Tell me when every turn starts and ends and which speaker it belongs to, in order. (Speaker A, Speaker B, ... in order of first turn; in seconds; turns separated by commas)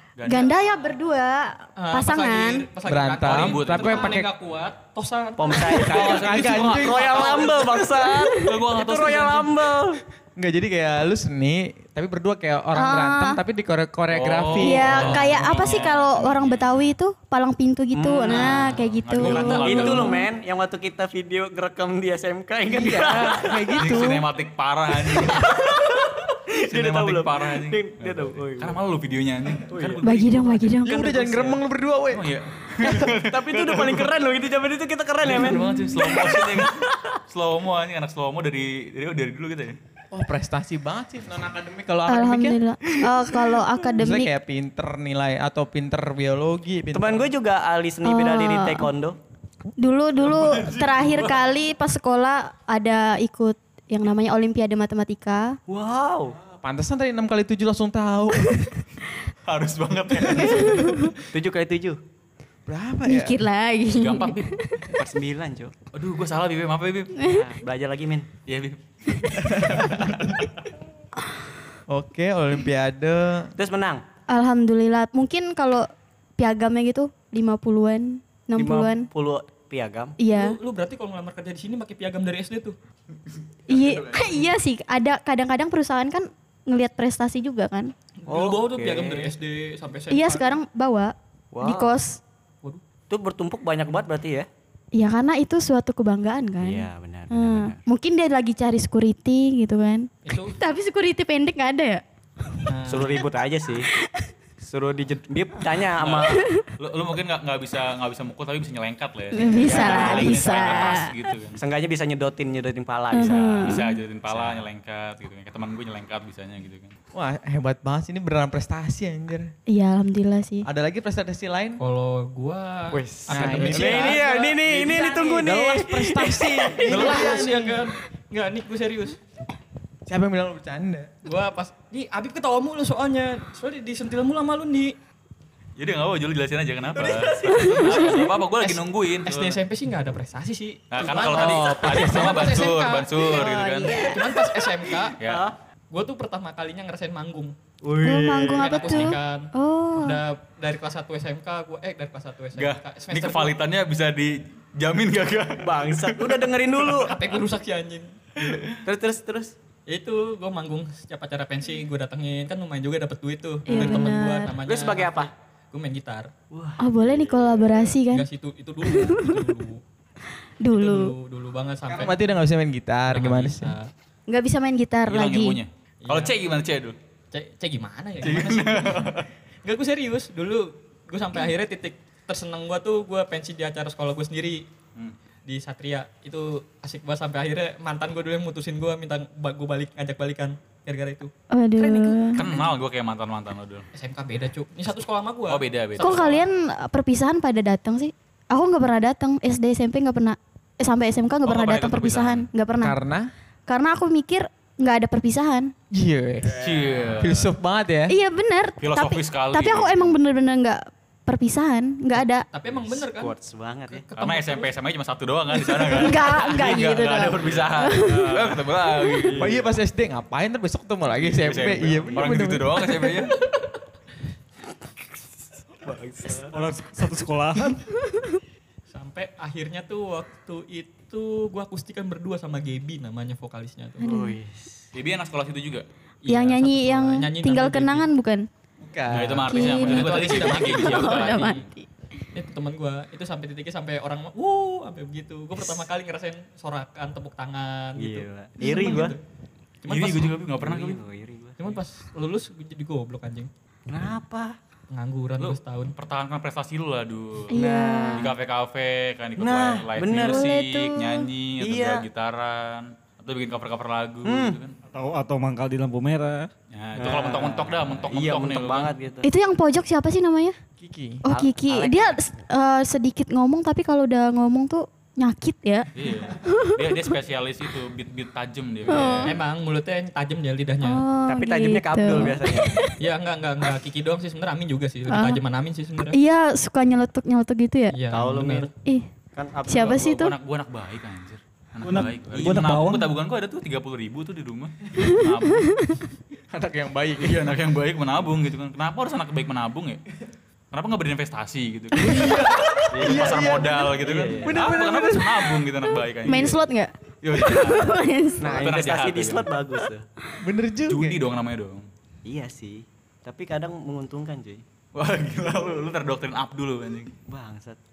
Speaker A: 0.1-0.5, Speaker B: 0.2-2.7, Speaker C: 1.8-8.0, Speaker D: 2.8-4.3, Speaker A: 3.3-4.2, Speaker E: 5.4-10.0, Speaker D: 5.7-7.6, Speaker A: 6.0-6.8, Speaker B: 7.9-8.5, Speaker A: 8.4-9.5, Speaker D: 10.3-15.2, Speaker B: 12.7-13.4, Speaker A: 14.1-16.9, Speaker B: 14.6-20.2, Speaker C: 15.0-15.9, Speaker E: 17.9-18.8, Speaker A: 18.9-20.1, Speaker C: 19.2-20.0, Speaker E: 19.4-23.8, Speaker D: 22.7-24.2, Speaker A: 23.8-25.8, Speaker E: 24.9-28.8, Speaker A: 26.7-30.8, Speaker E: 29.6-30.0, Speaker B: 30.0-31.2, Speaker D: 30.8-32.3, Speaker E: 31.1-31.6, Speaker A: 32.1-34.1, Speaker E: 32.8-37.0, Speaker A: 35.2-39.8, Speaker D: 40.1-42.6, Speaker B: 42.1-44.3, Speaker D: 44.0-47.3, Speaker E: 46.9-49.2, Speaker B: 48.0-48.9, Speaker B: 49.8-55.6, Speaker A: 50.2-51.3, Speaker E: 55.7-56.4, Speaker D: 56.5-58.5, Speaker A: 59.4-61.0, Speaker B: 60.3-61.1, Speaker E: 61.3-62.0, Speaker D: 62.7-63.4, Speaker B: 63.0-65.0, Speaker A: 63.9-64.5, Speaker E: 64.9-65.7, Speaker A: 65.9-67.2, Speaker B: 67.2-67.5, Speaker E: 67.2-68.3, Speaker A: 68.5-70.0, Speaker B: 69.1-69.5, Speaker D: 69.6-70.2, Speaker D: 71.9-73.5, Speaker E: 73.6-74.0, Speaker B: 74.3-79.1, Speaker E: 78.6-80.2, Speaker B: 80.2-80.5, Speaker C: 80.3-82.7, Speaker A: 83.2-84.4, Speaker B: 83.7-87.9, Speaker C: 88.2-90.5, Speaker E: 88.3-89.3, Speaker B: 90.1-92.2, Speaker E: 91.5-92.0, Speaker E: 93.1-94.5, Speaker B: 94.9-102.0, Speaker E: 96.6-97.8, Speaker C: 100.2-100.6, Speaker C: 102.7-103.2, Speaker E: 102.9-103.9, Speaker E: 104.6-106.4, Speaker A: 106.0-111.6, Speaker B: 106.3-106.6, Speaker B: 109.3-111.1, Speaker E: 109.6-111.0, Speaker E: 111.5-114.7, Speaker B: 113.1-113.9, Speaker A: 113.2-117.0, Speaker D: 117.1-119.5, Speaker B: 119.7-120.7, Speaker D: 120.6-121.8, Speaker C: 121.8-125.5, Speaker E: 122.9-127.3, Speaker D: 123.3-124.3, Speaker D: 125.3-127.8, Speaker C: 126.8-129.2, Speaker D: 130.1-131.2, Speaker C: 131.2-134.9, Speaker A: 135.8-139.6, Speaker E: 136.9-138.2, Speaker B: 137.5-138.3, Speaker C: 137.9-145.2, Speaker A: 140.9-144.0, Speaker D: 141.0-142.4, Speaker B: 143.2-144.3, Speaker E: 143.7-145.5, Speaker C: 145.9-147.5, Speaker E: 147.8-149.1, Speaker B: 148.0-150.2, Speaker C: 148.5-153.6, Speaker A: 152.6-156.3, Speaker E: 155.6-157.1, Speaker C: 157.0-158.7, Speaker E: 158.8-159.5, Speaker C: 159.9-166.3, Speaker B: 163.7-164.6, Speaker E: 164.6-165.3, Speaker E: 166.5-168.0, Speaker B: 166.8-168.3, Speaker C: 168.1-169.8, Speaker B: 168.8-169.5, Speaker B: 170.6-171.1, Speaker C: 170.7-172.3, Speaker D: 171.9-173.8, Speaker C: 173.1-173.9, Speaker B: 174.3-175.6, Speaker A: 175.1-176.9, Speaker C: 176.0-176.3, Speaker C: 177.3-184.7, Speaker A: 178.2-179.3, Speaker C: 185.4-192.6, Speaker B: 191.5-192.4, Speaker A: 192.3-193.9, Speaker C: 193.9-196.3, Speaker A: 195.5-196.4, Speaker B: 196.0-203.0, Speaker A: 201.4-202.5, Speaker D: 202.8-203.3, Speaker B: 203.7-205.7, Speaker D: 205.9-208.1, Speaker A: 206.6-207.5, Speaker B: 208.1-212.4, Speaker A: 208.8-210.1, Speaker C: 212.5-213.3, Speaker E: 212.9-214.0, Speaker C: 213.9-214.7, Speaker A: 214.2-219.5, Speaker B: 215.6-218.4, Speaker E: 217.4-219.6, Speaker D: 219.4-222.6, Speaker A: 221.2-223.4, Speaker B: 222.2-223.1, Speaker E: 225.8-226.6, Speaker F: 226.4-227.8, Speaker B: 228.1-228.4, Speaker C: 228.9-234.0, Speaker E: 234.0-234.9, Speaker B: 234.0-234.3, Speaker A: 234.9-235.8, Speaker C: 236.2-238.1, Speaker B: 236.3-238.5, Speaker D: 238.8-239.6, Speaker A: 239.1-241.7, Speaker B: 239.4-241.9, Speaker C: 239.6-241.6, Speaker C: 242.3-249.2, Speaker E: 248.0-249.2, Speaker B: 248.6-249.0, Speaker C: 249.8-250.4, Speaker A: 249.9-251.0, Speaker E: 250.6-251.8, Speaker C: 251.6-253.5, Speaker E: 253.9-254.6, Speaker C: 254.9-255.9, Speaker A: 255.4-257.5, Speaker E: 257.5-258.3, Speaker B: 257.5-258.3, Speaker A: 258.1-264.8, Speaker E: 259.4-260.6, Speaker B: 260.1-261.3, Speaker E: 261.6-262.1, Speaker E: 264.2-264.6, Speaker F: 264.9-266.5, Speaker A: 266.7-268.9, Speaker E: 266.9-269.3, Speaker B: 269.2-270.6, Speaker D: 270.8-271.2, Speaker B: 271.2-275.9, Speaker E: 271.2-272.2, Speaker A: 275.9-279.3, Speaker B: 276.4-277.1, Speaker B: 278.9-279.3, Speaker C: 279.2-281.0, Speaker B: 280.8-282.9, Speaker E: 281.3-282.8, Speaker C: 283.0-286.2, Speaker B: 285.1-285.4, Speaker B: 286.1-288.0, Speaker C: 287.9-288.7, Speaker E: 288.1-288.7, Speaker E: 289.3-290.1, Speaker B: 289.7-290.3, Speaker A: 289.7-295.7, Speaker F: 291.8-293.1, Speaker D: 296.5-297.5, Speaker A: 297.2-300.0, Speaker A: 300.7-306.6, Speaker B: 301.9-302.4, Speaker D: 302.0-305.7, Speaker E: 302.9-303.4, Speaker E: 304.0-304.6, Speaker B: 306.2-308.6, Speaker A: 307.2-309.5, Speaker E: 308.4-310.0, Speaker D: 310.4-311.2, Speaker A: 310.9-311.9, Speaker E: 312.2-314.6, Speaker A: 314.9-317.1, Speaker E: 317.3-317.8